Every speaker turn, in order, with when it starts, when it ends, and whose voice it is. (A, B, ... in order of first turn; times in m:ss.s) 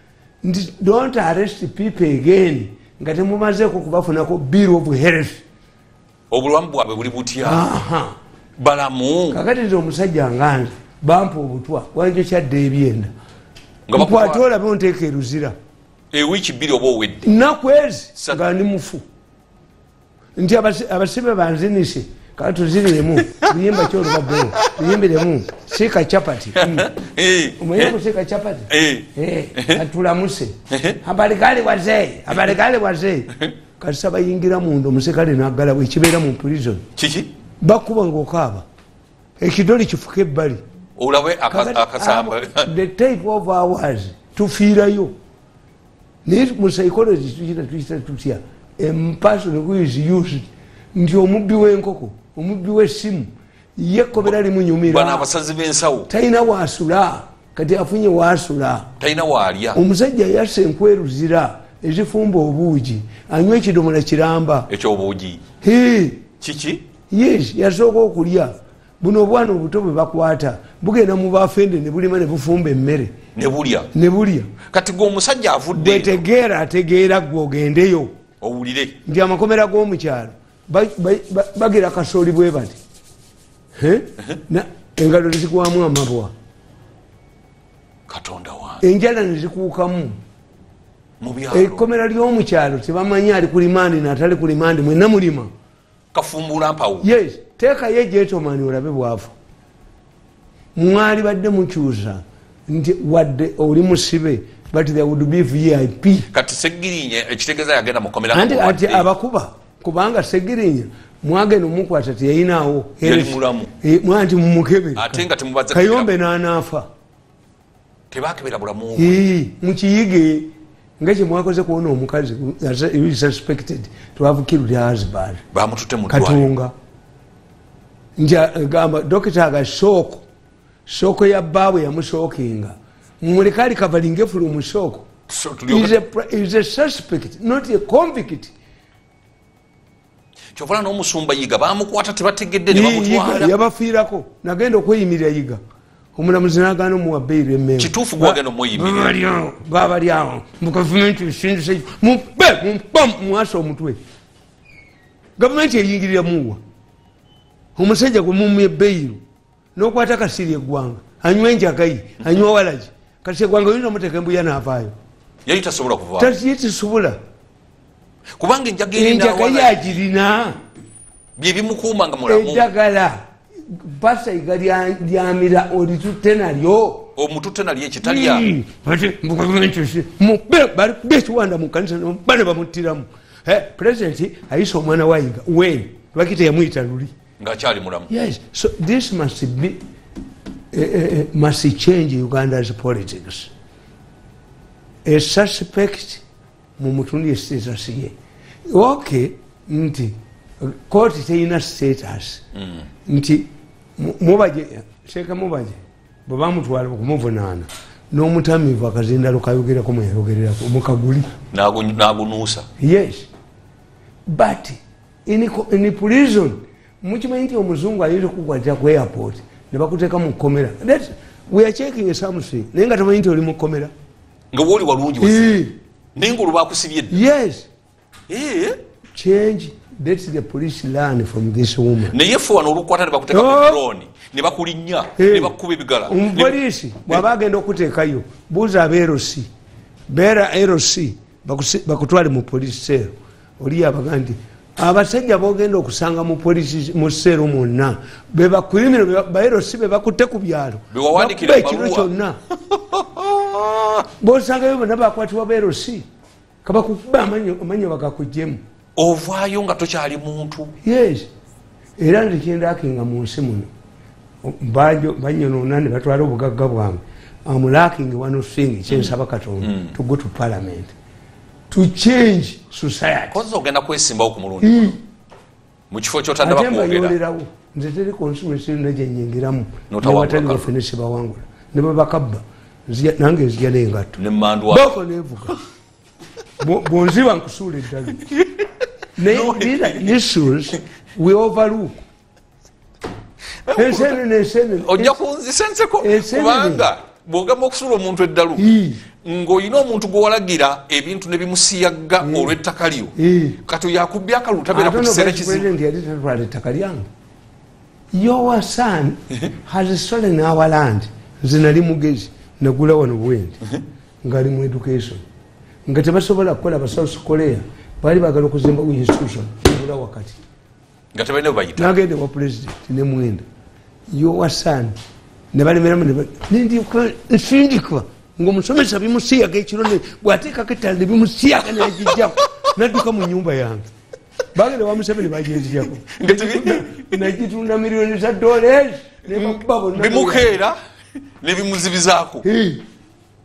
0:00.4-0:05.4 A
0:06.3-0:07.7 B
0:07.4-0:08.2 A
0:08.6-0:09.4 B
0:09.3-0:13.1 A
0:13.9-0:14.4 B
0:13.9-0:15.5 A
0:16.1-0:17.4 B
0:17.2-0:19.0 A
0:20.4-0:26.9 A
0:23.4-0:25.0 B
0:26.6-0:28.0 B
0:27.6-0:36.8 A
0:28.7-0:29.8 B
0:30.7-0:31.0 B
0:37.0-0:37.3 B
0:37.6-0:38.7 A
0:39.4-0:40.6 A
0:41.0-0:42.7 B
0:41.5-0:45.1 A
0:46.2-0:55.3 A
0:54.2-0:56.1 B
0:56.1-0:58.9 A
0:59.0-0:59.8 B
0:59.7-1:04.7 A
1:04.7-1:05.4 B
1:05.6-1:06.2 A
1:06.4-1:06.8 B
1:07.1-1:13.2 A
1:13.4-1:13.9 B
1:13.9-1:14.5 A
1:14.7-1:16.2 B
1:15.7-1:18.1 A
1:18.4-1:19.0 B
1:19.0-1:22.8 A
1:23.8-1:26.3 A
1:28.1-1:28.8 B
1:28.8-1:30.2 A
1:31.2-1:31.9 B
1:31.5-1:35.5 A
1:36.1-1:37.1 B
1:37.0-1:39.3 A
1:40.8-1:46.3 A
1:46.3-1:49.1 B
1:48.3-1:56.9 A
1:53.0-1:53.7 B
1:55.0-1:56.1 B
1:58.1-1:59.2 B
1:59.0-2:05.4 A
2:05.5-2:06.5 B
2:06.1-2:06.7 A
2:08.2-2:10.2 A
2:10.9-2:15.1 A
2:15.3-2:16.0 B
2:15.7-2:18.5 A
2:20.6-2:23.5 B
2:22.7-2:25.6 A
2:26.2-2:34.0 A
2:27.8-2:29.2 B
2:35.4-2:36.6 A
2:37.8-2:39.2 A
2:39.8-2:44.9 A
2:45.5-2:46.4 B
2:46.2-2:47.2 A
2:48.4-2:50.0 B
2:48.9-2:50.6 A
2:51.4-2:52.7 B
2:52.3-2:57.1 A
2:57.2-2:58.5 B
2:58.0-3:07.1 A
3:07.4-3:08.1 B
3:08.1-3:09.8 A
3:10.7-3:13.5 A
3:15.0-3:16.2 A
3:16.8-3:18.2 A
3:18.7-3:22.4 A
3:23.1-3:31.3 A
3:31.5-3:32.7 B
3:32.8-3:33.3 A
3:34.3-3:43.9 A
3:44.5-3:47.2 B
3:45.2-3:45.7 A
3:47.1-3:47.7 A
3:48.3-3:48.8 B
3:49.1-3:52.2 A
3:52.1-3:57.2 B
3:53.3-3:53.8 A
3:55.2-3:55.5 A
3:56.1-3:59.5 A
4:00.1-4:12.4 A
4:10.9-4:12.1 B
4:12.7-4:14.1 B
4:14.2-4:16.1 A
4:16.6-4:18.6 A
4:19.0-4:20.7 B
4:20.8-4:21.3 A
4:22.0-4:23.7 A
4:24.4-4:31.0 A
4:28.9-4:30.0 B
4:31.7-4:33.4 A
4:33.3-4:35.0 B
4:34.6-4:35.0 A
4:35.9-4:37.2 B
4:36.4-4:45.6 A
4:39.9-4:40.7 B
4:44.2-4:45.0 B
4:46.6-4:48.2 A
4:48.2-4:48.7 B
4:49.2-4:52.0 A
4:49.2-4:50.2 B
4:53.7-4:54.2 B
4:53.8-4:55.2 A
4:54.8-5:05.7 B
4:56.0-4:56.9 A
4:58.6-4:59.0 A
5:02.2-5:02.5 A
5:03.2-5:03.6 A
5:04.7-5:07.1 A
5:08.1-5:13.6 A
5:14.2-5:15.2 A
5:15.9-5:20.4 A
5:21.1-5:22.0 B
5:21.8-5:23.4 A
5:24.1-5:24.9 A
5:25.5-5:33.9 A
5:31.8-5:32.3 B
5:34.5-5:40.6 A
5:35.4-5:37.3 B
5:39.3-5:40.8 B
5:41.4-5:42.5 B
5:42.4-5:42.8 A